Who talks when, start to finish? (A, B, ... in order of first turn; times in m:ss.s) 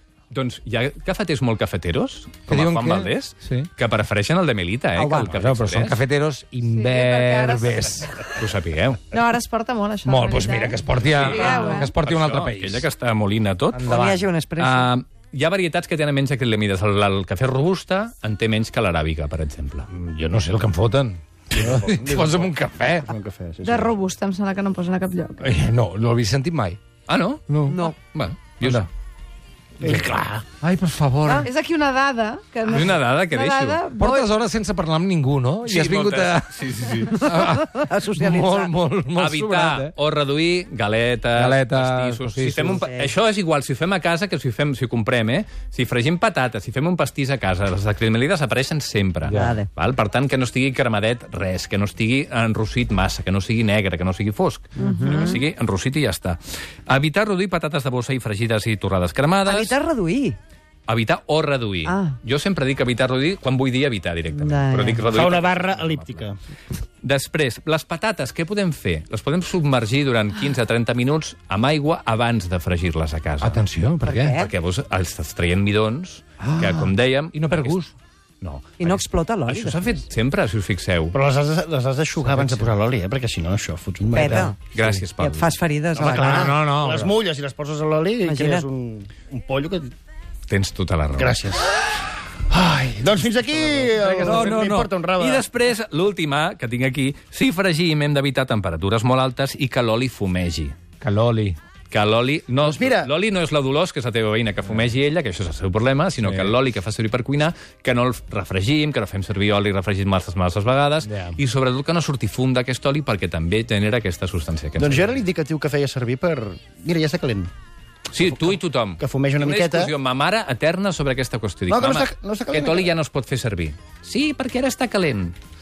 0:00.3-0:06.0 A
0:02.5-0:03.7 B
0:04.9-0:05.3 C
0:05.2-0:08.3 B
0:06.7-0:07.8 D
0:08.4-0:09.1 A
0:09.1-0:11.9 D
0:10.0-0:12.9 B
0:11.0-0:13.9 A
0:13.7-0:14.2 B
0:13.8-0:14.9 C
0:14.6-0:19.9 A
0:19.9-0:23.1 B
0:21.5-0:24.0 E
0:23.6-0:25.5 D
0:25.4-0:26.8 B
0:27.1-0:28.9 A
0:27.5-0:27.8 B
0:27.6-0:28.0 C
0:28.6-0:28.9 B
0:29.8-0:30.4 E
0:30.6-0:31.5 A
0:31.4-0:34.3 D
0:32.7-0:33.9 A
0:34.0-0:39.9 B
0:35.6-0:37.3 A
0:37.2-0:38.8 C
0:39.1-0:59.8 A
0:41.3-0:42.8 B
0:42.8-0:43.1 C
0:49.2-0:49.6 B
0:49.3-0:49.7 C
0:54.8-0:55.4 C
0:54.8-0:55.4 D
0:59.4-1:00.4 C
1:00.9-1:06.2 A
1:01.8-1:02.2 C
1:04.3-1:05.1 C
1:05.0-1:06.4 E
1:07.0-1:13.6 A
1:13.4-1:14.4 B
1:14.0-1:14.5 C
1:14.3-1:17.8 A
1:16.4-1:17.9 B
1:18.4-1:21.2 A
1:18.8-1:20.0 C
1:21.1-1:24.5 E
1:22.2-1:22.7 B
1:24.1-1:24.6 C
1:24.6-1:25.6 A
1:25.2-1:26.5 C
1:26.0-1:29.9 E
1:26.0-1:27.1 B
1:28.2-1:28.7 C
1:30.5-1:31.4 A
1:31.1-1:31.9 E
1:32.5-1:35.5 E
1:33.9-1:34.9 B
1:34.0-1:40.8 A
1:41.0-1:41.6 B
1:41.9-1:55.2 A
1:42.6-1:43.1 E
1:46.2-1:46.5 B
1:51.0-1:51.4 B
1:54.8-1:57.5 E
1:58.1-2:05.3 A
1:59.0-1:59.9 E
2:01.7-2:03.0 E